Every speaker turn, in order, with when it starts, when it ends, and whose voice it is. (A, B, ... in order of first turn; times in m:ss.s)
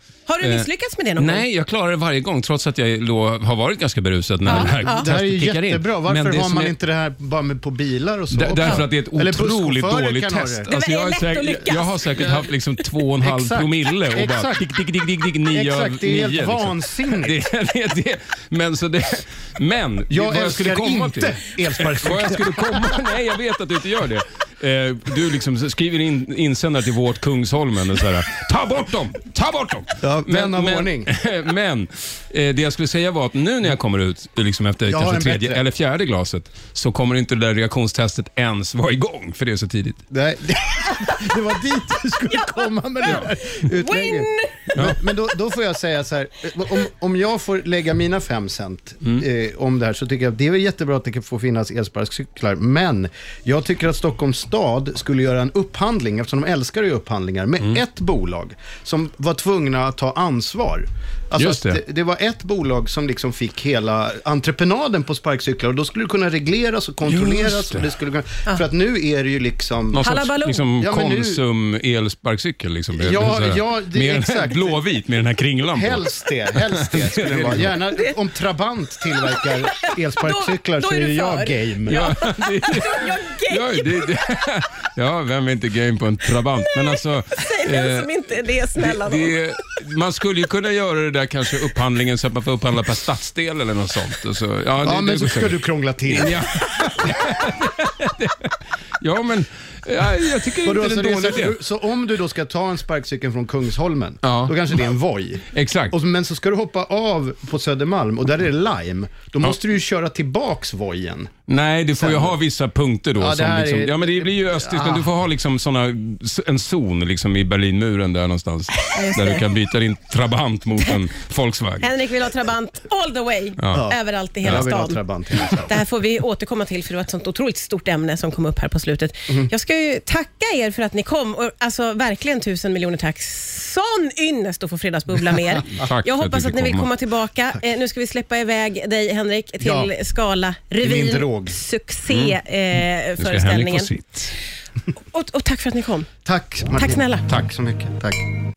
0:00.3-0:01.4 A
0:00.4-0:06.7 B
0:04.4-0:05.1 A
0:04.5-0:10.7 C
0:08.3-0:40.0 B
0:08.6-0:08.8 A
0:10.7-0:12.3 A
0:13.2-0:14.6 C
0:15.5-0:17.4 C
0:20.1-0:23.0 C
0:30.0-0:31.1 C
0:34.8-0:35.6 C
0:40.1-1:10.1 C
0:43.0-0:44.6 A
0:44.7-0:45.0 B
1:01.4-1:01.8 B
1:07.0-1:07.9 B
1:09.9-1:17.7 B
1:10.0-1:10.6 A
1:10.8-1:11.4 C
1:12.9-1:14.8 C
1:15.6-1:22.1 C
1:19.2-1:24.1 A
1:21.9-1:28.1 B
1:27.4-1:29.4 A
1:28.8-1:41.6 B
1:34.8-1:36.4 C
1:40.6-1:51.3 C
1:44.2-1:44.6 B
1:45.5-1:46.0 B
1:51.5-2:01.9 B
1:52.0-1:52.4 C
1:53.2-1:55.1 C
1:58.9-1:59.4 A
2:01.8-2:05.0 A
2:03.6-2:03.9 B
2:03.7-2:05.8 C
2:05.5-2:23.9 A
2:15.7-2:16.9 B
2:19.6-2:19.9 C
2:20.8-2:21.6 C
2:22.1-2:22.4 B
2:23.2-2:24.3 B
2:25.1-2:26.1 A
2:26.2-2:28.2 C
2:26.7-2:27.2 A